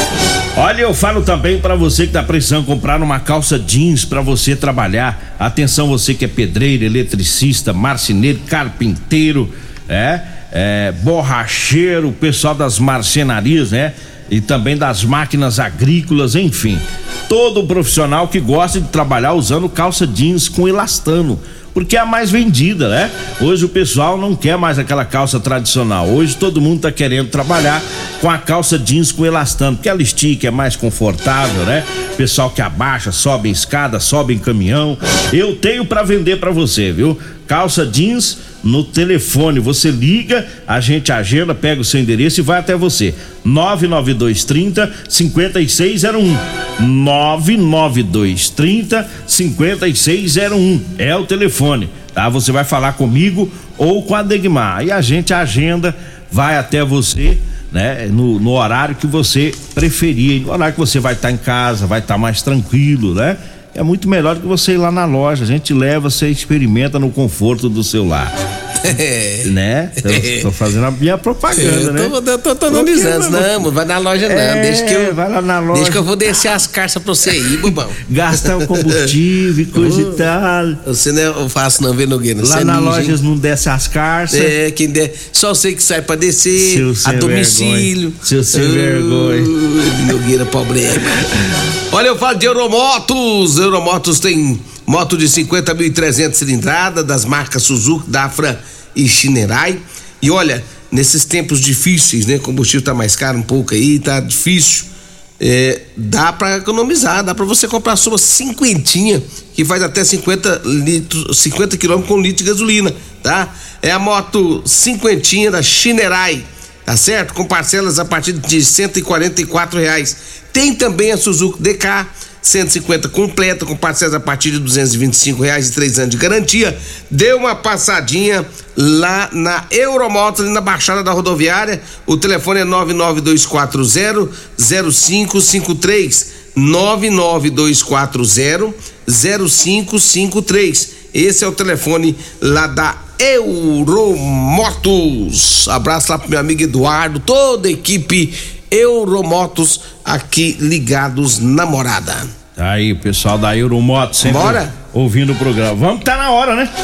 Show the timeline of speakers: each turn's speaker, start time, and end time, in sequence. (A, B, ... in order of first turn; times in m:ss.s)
0:00.6-1:08.3 A
1:08.8-1:09.5 B
1:09.4-1:12.1 A
1:10.0-1:10.4 B
1:11.5-1:15.2 B
1:12.7-1:13.7 A
1:14.2-1:16.1 A
1:15.7-1:19.1 B
1:18.0-1:20.8 A
1:19.8-1:20.2 B
1:20.8-1:23.2 B
1:22.4-1:24.5 A
1:24.3-1:31.2 B
1:26.6-1:29.5 A
1:31.9-1:44.9 B
1:45.4-2:32.3 B
2:32.6-2:36.7 A
2:34.2-2:34.7 B